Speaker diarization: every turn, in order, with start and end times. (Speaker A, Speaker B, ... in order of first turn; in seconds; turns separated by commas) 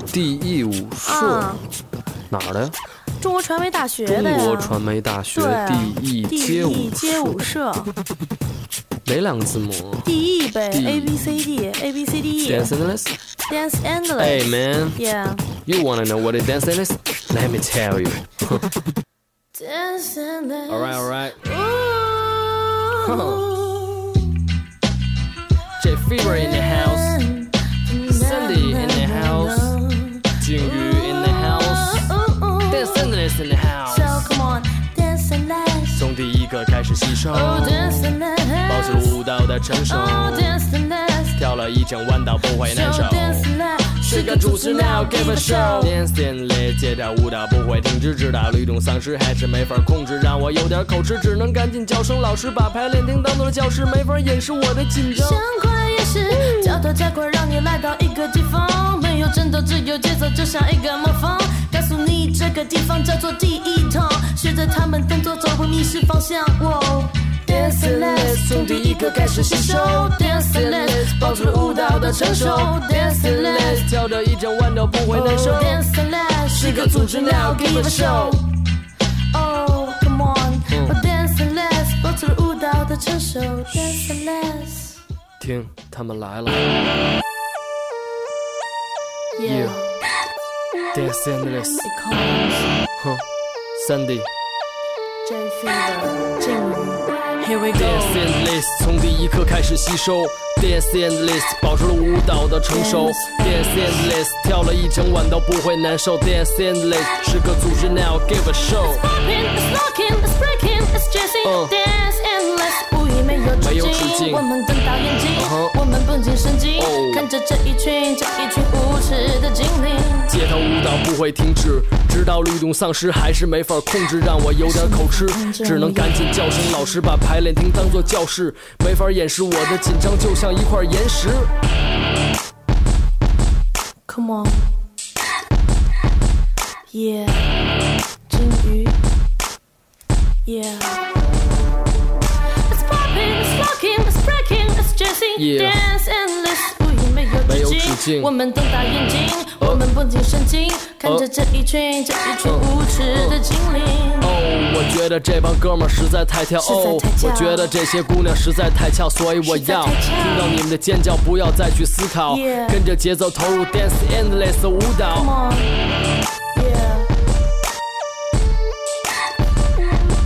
Speaker A: 0.1-1.5, Speaker B: 1.0-1.6, Speaker A: 2.3-2.8, Speaker B: 3.2-4.8, Speaker A: 4.0-7.4, Speaker B: 5.3-7.9, Speaker A: 9.0-10.1, Speaker B: 10.0-12.7, Speaker A: 10.7-11.4, Speaker A: 12.4-13.1, Speaker B: 13.4-15.4, Speaker A: 14.2-15.0, Speaker A: 15.7-18.6, Speaker B: 19.5-24.3, Speaker A: 20.7-21.4, Speaker A: 23.0-23.5, Speaker A: 25.8-27.2, Speaker B: 26.2-33.1, Speaker A: 28.1-29.7, Speaker A: 30.4-32.1, Speaker A: 32.7-34.3, Speaker B: 33.8-36.0, Speaker A: 36.0-38.1, Speaker B: 37.3-39.2, Speaker A: 38.7-40.5, Speaker B: 39.9-41.4, Speaker A: 41.4-43.5, Speaker B: 42.6-45.9, Speaker A: 44.0-55.4, Speaker B: 55.1-73.9, Speaker A: 56.3-56.7, Speaker A: 67.5-75.8, Speaker B: 75.1-78.5, Speaker A: 76.5-78.4, Speaker B: 79.3-85.0, Speaker A: 80.7-80.9, Speaker A: 83.7-84.2, Speaker A: 85.4-86.8, Speaker B: 89.3-89.9, Speaker A: 89.4-89.8, Speaker A: 90.9-91.8, Speaker B: 91.8-92.8, Speaker A: 93.0-93.2, Speaker A: 93.7-94.3, Speaker B: 95.2-98.2, Speaker A: 97.7-109.0, Speaker B: 102.7-104.1, Speaker B: 108.8-120.3, Speaker A: 111.4-111.7, Speaker A: 113.6-114.5, Speaker A: 115.3-115.8, Speaker A: 116.8-117.3, Speaker A: 120.3-131.5, Speaker B: 124.6-127.0, Speaker B: 127.8-128.1, Speaker B: 134.1-134.7, Speaker B: 136.9-137.6, Speaker B: 138.3-139.0, Speaker B: 140.4-141.1, Speaker B: 142.7-154.3, Speaker A: 145.3-145.9, Speaker A: 147.4-148.3, Speaker A: 152.4-153.4, Speaker A: 154.2-165.3, Speaker B: 156.6-157.8, Speaker B: 159.4-160.6, Speaker B: 162.3-162.8, Speaker B: 165.1-165.8, Speaker B: 166.5-167.1